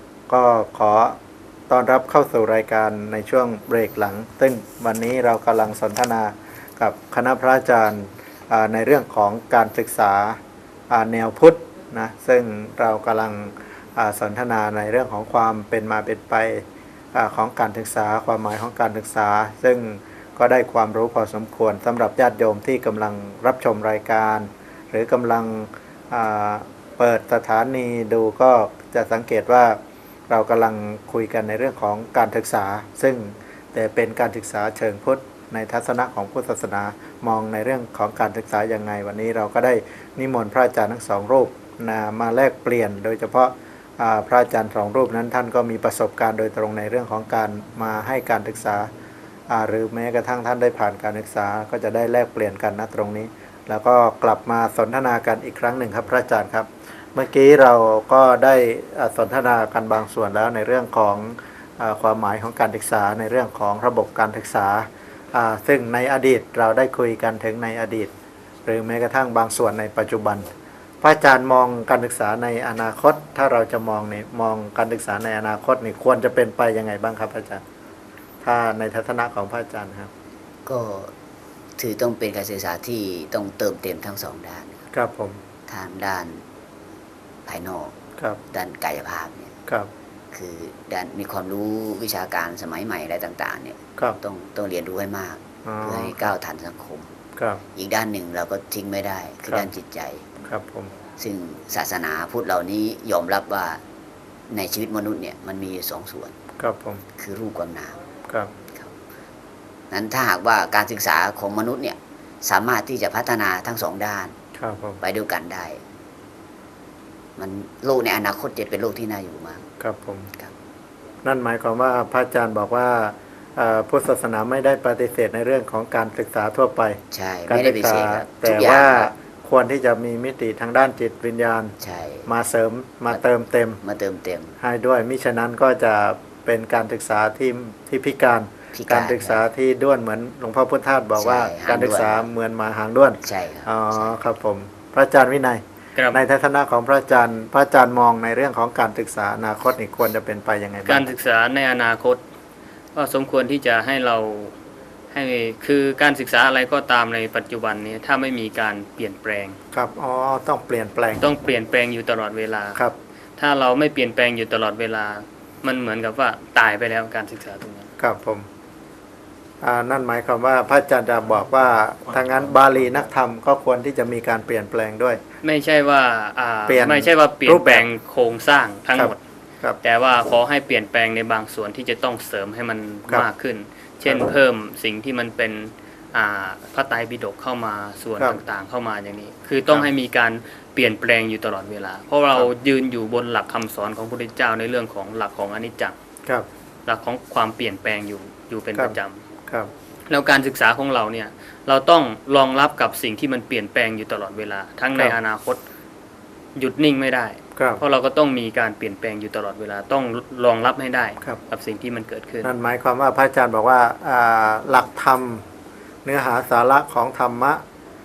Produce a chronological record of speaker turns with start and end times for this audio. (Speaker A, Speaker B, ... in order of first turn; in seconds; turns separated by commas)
Speaker A: 0.3-1.2, Speaker A: 1.7-10.4, Speaker A: 10.9-48.9, Speaker A: 49.5-68.1, Speaker A: 68.7-70.5, Speaker A: 71.0-77.6, Speaker A: 78.4-80.1, Speaker B: 80.7-81.1, Speaker B: 81.8-84.9, Speaker A: 84.9-85.4, Speaker B: 85.7-86.5, Speaker B: 87.5-88.0, Speaker B: 88.5-89.5, Speaker B: 90.3-97.2, Speaker A: 95.7-96.3, Speaker A: 97.4-97.6, Speaker B: 97.7-100.3, Speaker A: 100.4-100.9, Speaker B: 101.2-103.8, Speaker B: 104.5-106.4, Speaker A: 106.6-107.0, Speaker B: 107.2-108.0, Speaker B: 108.7-109.0, Speaker B: 109.9-114.3, Speaker A: 114.6-115.0, Speaker B: 115.0-115.8, Speaker B: 117.4-119.7, Speaker A: 119.8-120.3, Speaker A: 121.2-133.8, Speaker B: 127.1-129.1, Speaker B: 131.8-132.3, Speaker B: 133.8-134.6, Speaker A: 134.6-151.1, Speaker B: 138.7-139.5, Speaker B: 141.2-142.3, Speaker B: 143.2-144.2, Speaker C: 146.0-146.2, Speaker C: 150.9-152.2, Speaker C: 152.9-154.6, Speaker C: 155.1-159.6, Speaker A: 159.7-161.2, Speaker C: 161.2-162.8, Speaker C: 163.4-167.9, Speaker A: 168.0-168.5, Speaker A: 169.6-175.2, Speaker C: 175.4-179.2, Speaker A: 176.7-177.9, Speaker A: 178.9-179.8, Speaker C: 179.8-196.0, Speaker C: 196.9-199.2, Speaker C: 200.1-205.6, Speaker C: 206.6-212.5, Speaker A: 207.6-207.8, Speaker A: 212.4-215.4, Speaker A: 216.1-217.6